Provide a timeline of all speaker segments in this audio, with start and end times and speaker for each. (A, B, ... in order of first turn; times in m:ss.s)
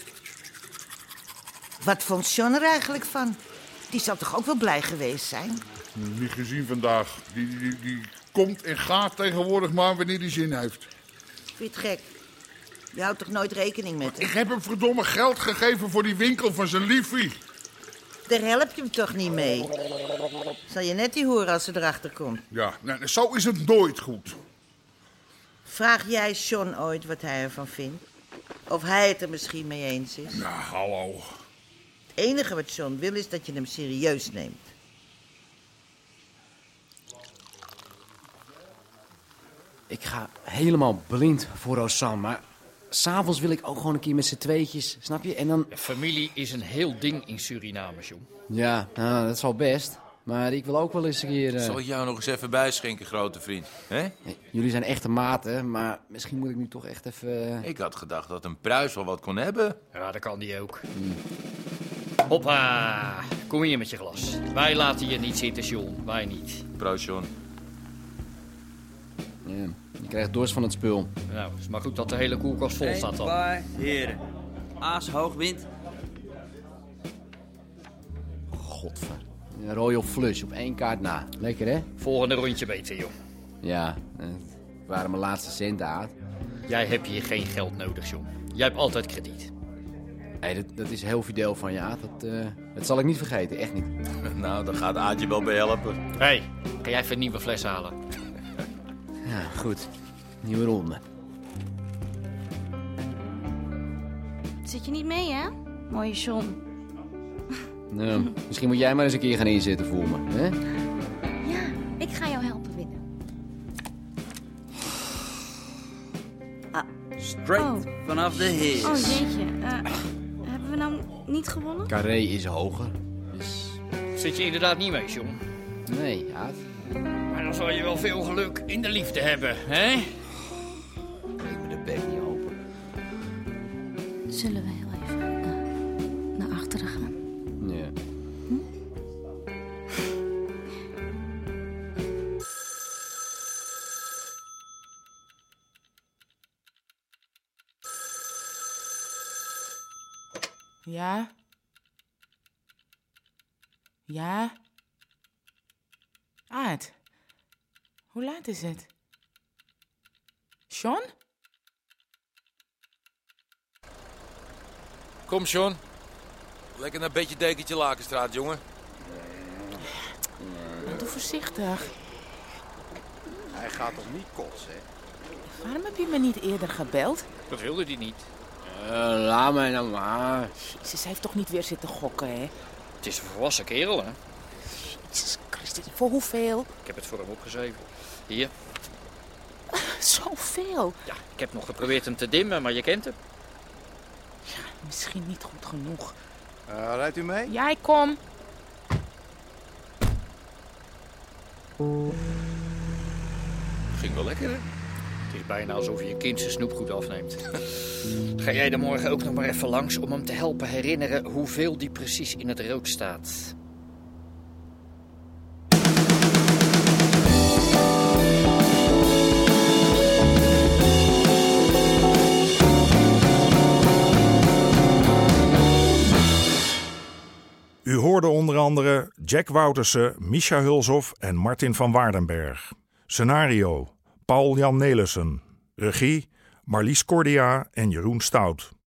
0:01.8-0:03.4 A
0:03.9-0:05.6 A
0:06.0-0:10.9 B
0:11.6-0:12.1 A
0:12.9-0:14.3 A
0:14.2-0:17.4 B
0:18.3-0:19.7 A
0:20.7-0:22.4 A
0:22.5-0:24.4 B
0:25.6-0:28.0 A
0:28.7-0:30.4 A
0:30.3-0:31.3 B
0:32.2-0:34.7 A
0:39.9-0:45.7 C
0:45.7-0:48.2 D
0:48.5-0:51.8 C
0:51.6-0:54.1 E
0:54.3-0:57.7 C
0:57.6-0:59.8 E
0:59.9-1:00.8 D
1:02.3-1:06.6 D
1:06.8-1:07.3 E
1:09.5-1:11.1 C
1:11.3-1:13.4 D
1:12.8-1:14.2 F
1:14.8-1:15.6 F
1:18.5-1:21.9 C
1:22.0-1:23.1 D
1:23.6-1:26.1 C
1:26.7-1:29.5 D
1:30.4-1:33.9 C
1:34.3-1:36.0 E
1:36.2-1:38.0 D
1:39.2-1:39.9 C
1:40.4-1:41.0 C
1:44.6-1:46.6 G
1:47.9-1:50.6 C
1:51.4-1:53.0 G
1:57.2-1:59.2 F
1:57.5-1:57.9 G
1:58.8-1:59.9 G
2:00.4-2:01.9 G
2:01.9-2:03.8 C
2:04.2-2:05.4 D
2:05.9-2:06.6 C
2:07.3-2:10.2 D
2:11.4-2:12.5 C
2:14.3-2:15.6 G
2:16.4-2:17.1 G
2:17.6-2:17.9 C
2:30.9-2:31.3 H
2:34.1-2:34.6 H
2:36.5-2:37.0 H
2:38.1-2:38.9 H
2:40.7-2:41.1 H
2:45.3-2:45.8 E
2:46.8-2:48.6 E
2:49.5-2:49.8 C
2:50.4-2:50.8 C
2:50.8-2:52.0 H
2:53.6-2:54.7 I
2:55.5-2:57.3 H
2:57.5-2:58.2 D
2:58.6-3:00.5 C
3:00.6-3:02.5 H
3:03.0-3:04.2 D
3:04.7-3:06.7 H
3:06.8-3:08.5 D
3:09.7-3:11.0 H
3:11.1-3:13.2 D
3:14.4-3:16.2 H
3:16.7-3:17.5 I
3:17.4-3:18.2 H
3:24.1-3:24.6 E
3:25.3-3:33.5 D
3:47.9-3:53.9 J
3:54.5-3:58.7 J